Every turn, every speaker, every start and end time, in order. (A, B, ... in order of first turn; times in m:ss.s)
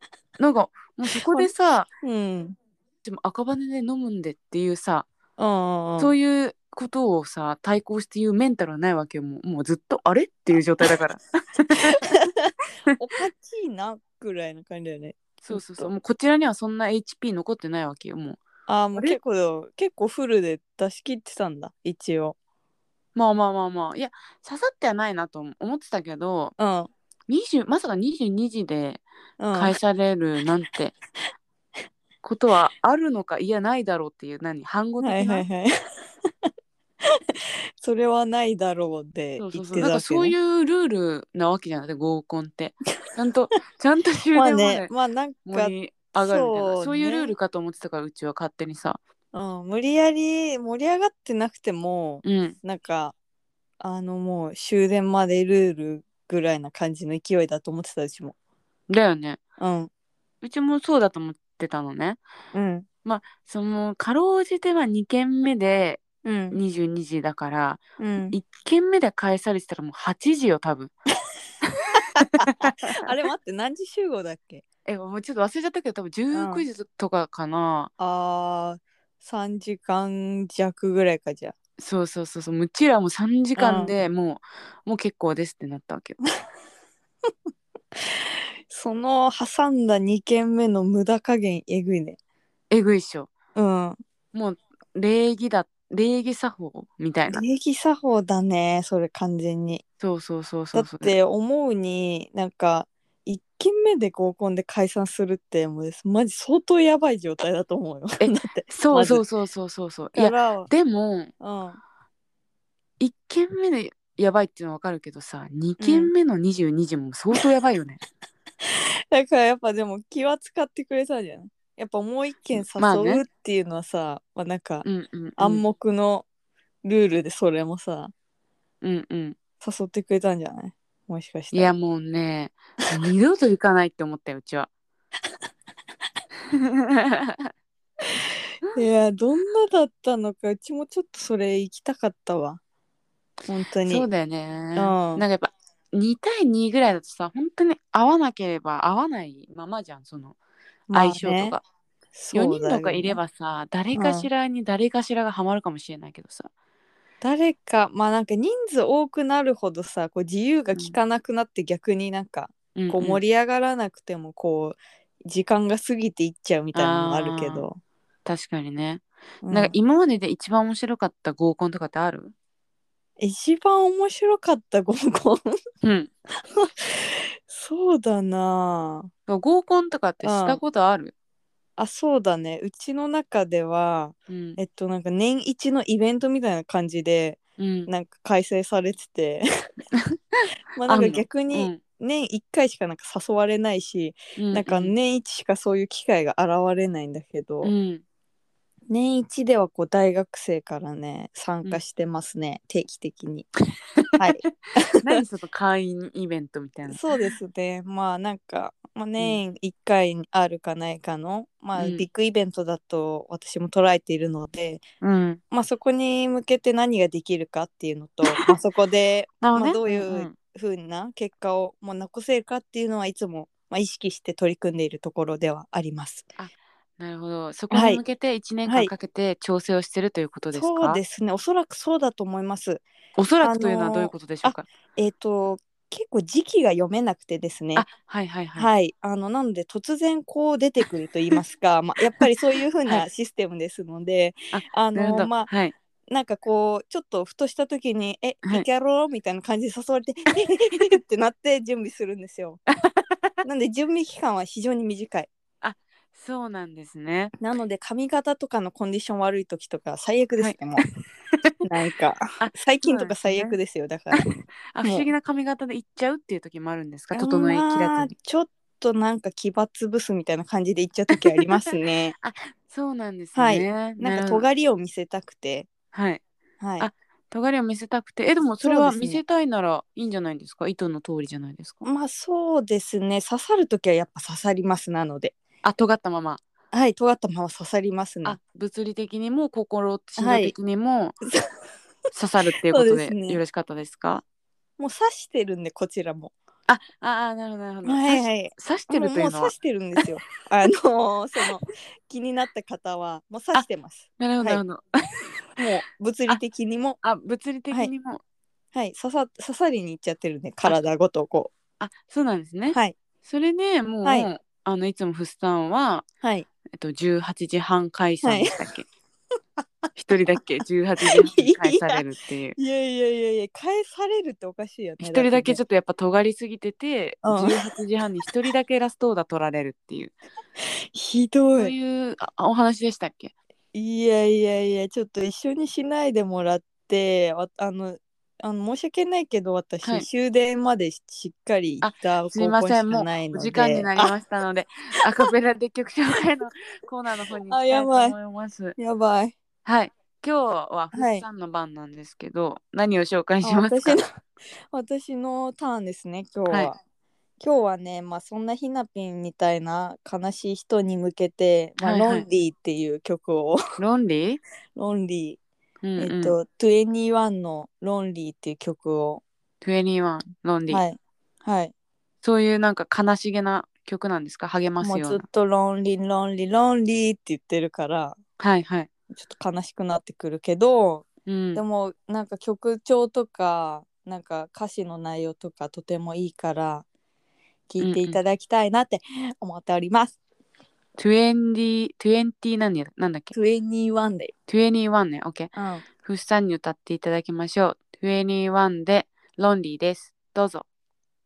0:00.4-0:01.9 A
0:02.0-0:02.6 B
0:03.0-0:05.1 A
0:05.4-0:06.1 B
0:06.0-0:12.1 A
0:12.0-0:15.9 B
0:15.4-0:18.4 A
0:18.7-0:22.4 B
0:23.2-0:26.5 A
0:26.6-0:26.9 B
0:27.3-0:30.9 A
0:29.4-0:29.8 B
0:32.2-0:35.4 A
0:35.0-0:35.7 B
0:37.0-0:40.4 B
0:39.4-0:44.9 A
0:44.3-0:47.4 B
0:45.5-0:49.0 A
0:49.3-0:53.1 B
0:52.2-0:52.6 A
0:53.8-0:58.4 B
0:58.9-0:59.4 A
0:59.6-0:59.9 B
1:00.4-1:02.2 A
1:02.5-1:02.9 B
1:03.0-1:10.9 A
1:06.2-1:06.6 B
1:08.0-1:08.4 B
1:11.7-1:13.0 A
1:12.4-1:14.6 B
1:14.9-1:17.9 A
1:16.3-1:16.6 B
1:18.0-1:21.5 B
1:21.8-1:26.2 A
1:23.6-1:23.9 B
1:28.7-1:32.2 B
1:32.7-1:33.3 A
1:33.6-1:34.0 B
1:34.3-1:37.4 A
1:37.3-1:39.8 B
1:40.0-1:41.2 A
1:40.7-1:49.2 B
1:48.2-1:51.3 A
1:50.2-1:50.7 B
1:51.4-1:51.8 B
1:53.0-1:58.0 A
1:55.8-1:56.1 B
1:58.6-2:04.9 B
2:02.6-2:03.2 A
2:04.8-2:05.6 A
2:05.4-2:06.3 B
2:06.8-2:08.1 B
2:08.8-2:09.4 A
2:09.6-2:11.7 B
2:11.5-2:14.7 A
2:16.5-2:17.5 A
2:18.7-2:22.6 B
2:23.5-2:24.1 B
2:23.9-2:30.4 A
2:24.8-2:25.2 B
2:30.9-2:31.6 B
2:30.9-2:31.6 A
2:32.2-2:33.2 B
2:32.3-2:36.5 A
2:33.9-2:34.3 B
2:37.2-2:47.8 B
2:42.8-2:43.2 A
2:46.8-2:47.6 A
2:48.3-2:52.3 A
2:49.4-2:49.8 B
2:53.2-2:55.6 B
2:55.8-2:56.1 A
2:56.4-2:59.1 B
2:59.3-3:01.1 A
3:00.2-3:00.6 B
3:01.8-3:09.5 B
3:04.3-3:04.6 A
3:07.6-3:07.9 A
3:10.0-3:11.8 A
3:10.8-3:17.7 B
3:14.4-3:14.9 A
3:17.6-3:18.0 A
3:18.9-3:23.5 B
3:24.2-3:25.2 B
3:25.0-3:27.0 A
3:26.9-3:34.8 B
3:31.8-3:32.0 A
3:35.0-3:35.4 A
3:35.5-3:46.3 B
3:38.3-3:38.5 A
3:39.4-3:40.3 A
3:46.4-3:51.0 A
3:47.7-3:48.0 B
3:48.6-3:48.9 B
3:50.5-3:52.8 B
3:53.2-3:54.7 A
3:53.4-3:57.9 B
3:57.8-3:58.7 A
3:58.6-4:05.5 B
4:04.5-4:05.8 A
4:06.1-4:12.6 B
4:12.8-4:13.3 A
4:13.4-4:15.3 B
4:15.6-4:17.4 A
4:17.4-4:20.8 B
4:20.4-4:21.6 A
4:21.6-4:24.2 B
4:22.4-4:23.6 A
4:24.2-4:28.1 A
4:24.8-4:25.1 B
4:27.1-4:32.2 B
4:32.2-4:34.5 A
4:33.4-4:35.7 B
4:35.9-4:36.2 A
4:36.6-4:36.9 B
4:36.8-4:41.9 A
4:38.6-4:39.2 B
4:41.8-4:45.4 B
4:45.6-4:46.4 A
4:46.7-4:48.4 B
4:48.2-4:51.2 A
4:50.2-4:50.6 B
4:52.1-4:54.2 A
4:52.7-4:53.4 B
4:54.8-4:56.3 B
4:56.7-5:00.0 A
4:57.8-5:04.6 B
5:04.2-5:05.6 A
5:05.6-5:07.0 B
5:07.0-5:08.2 A
5:08.8-5:11.5 B
5:11.8-5:16.0 A
5:12.7-5:13.0 B
5:16.2-5:16.5 B
5:16.8-5:18.9 A
5:18.2-5:18.5 B
5:19.9-5:22.6 A
5:21.1-5:22.1 B
5:22.6-5:25.6 B
5:25.0-5:30.2 A
5:27.2-5:27.6 B
5:30.6-5:31.7 B
5:31.6-5:33.3 A
5:33.7-5:44.1 B
5:41.8-5:48.8 A
5:47.5-5:48.2 B
5:48.8-5:49.3 B
5:49.6-5:54.0 A
5:50.9-5:51.2 B
5:53.4-5:54.1 B
5:54.7-5:56.8 B
5:57.4-6:03.6 B
6:01.8-6:02.3 A
6:03.8-6:04.4 A
6:04.8-6:05.4 B
6:05.8-6:06.4 A
6:06.0-6:09.2 B
6:09.6-6:10.8 A
6:10.7-6:11.7 B
6:12.2-6:15.2 A
6:14.8-6:18.2 B
6:18.4-6:18.9 A
6:19.1-6:26.8 B
6:21.3-6:21.6 A
6:27.7-6:30.2 B
6:27.8-6:28.2 A
6:31.0-6:33.3 A
6:33.3-6:34.3 B
6:34.5-6:40.7 A
6:35.6-6:35.8 B